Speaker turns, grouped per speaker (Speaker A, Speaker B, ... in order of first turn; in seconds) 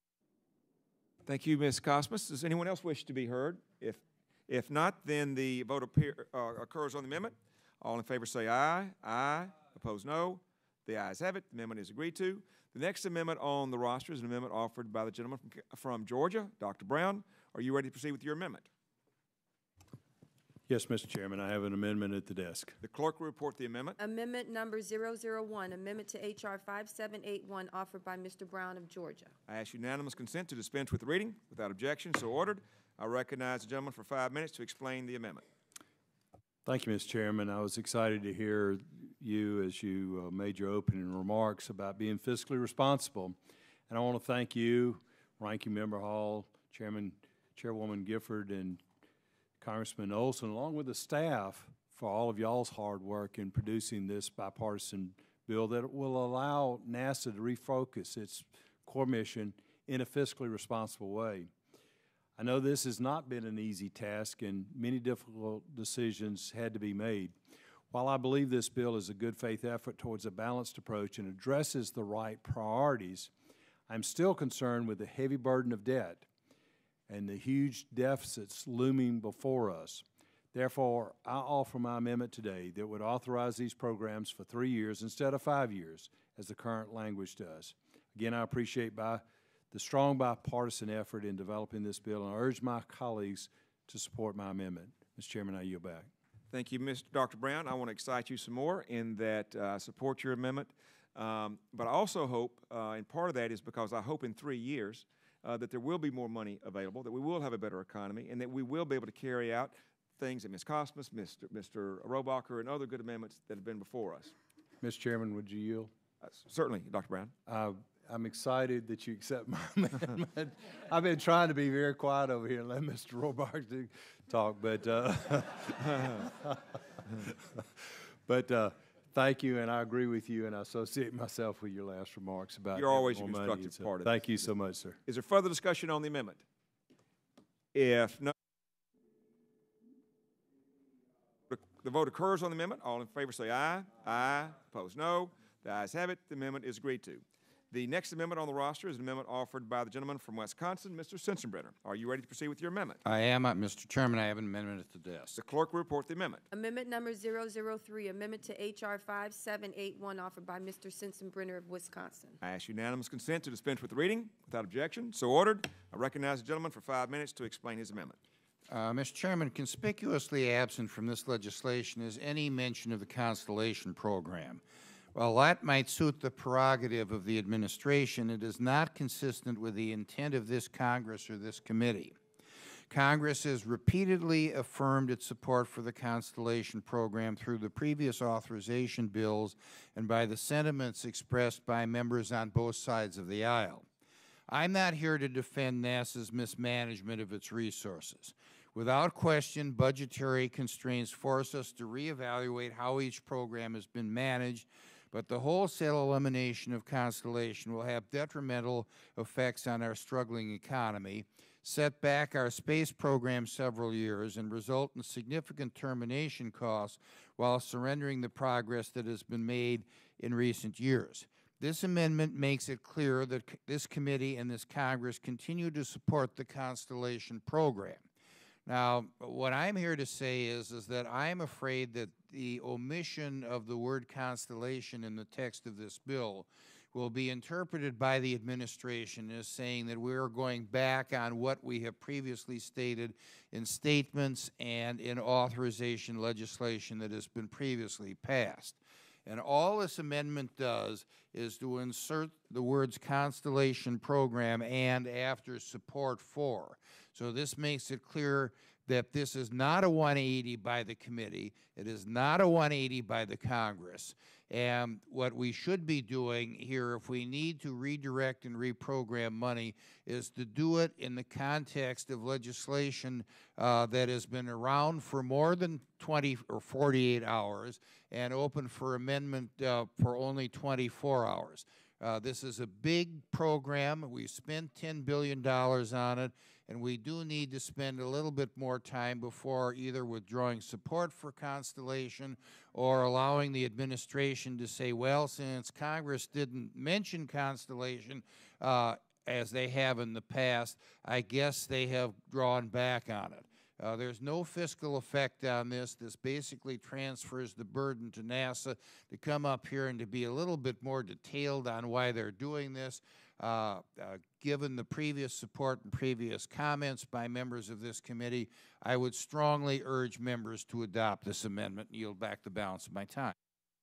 Speaker A: 1.2-18.7, 22.8-24.0, 29.5-35.4, 96.5-114.3, 116.2-117.3, 132.7-134.5, 135.1-136.4, 137.7-138.3, 141.5-153.0, 155.3-156.4, 162.4-168.2
Speaker B: 20.7-22.8, 36.6-48.8, 49.6-61.5, 62.4-67.4, 67.9-73.3, 73.9-76.3, 77.1-96.1, 114.8-115.9, 117.5-126.3, 128.2-135.0
Speaker C: 24.0-29.3, 156.5-162.4
Speaker D: 153.0-155.4, 168.7-174.6, 175.1-182.2, 182.9-193.8, 194.5-228.0, 228.7-323.3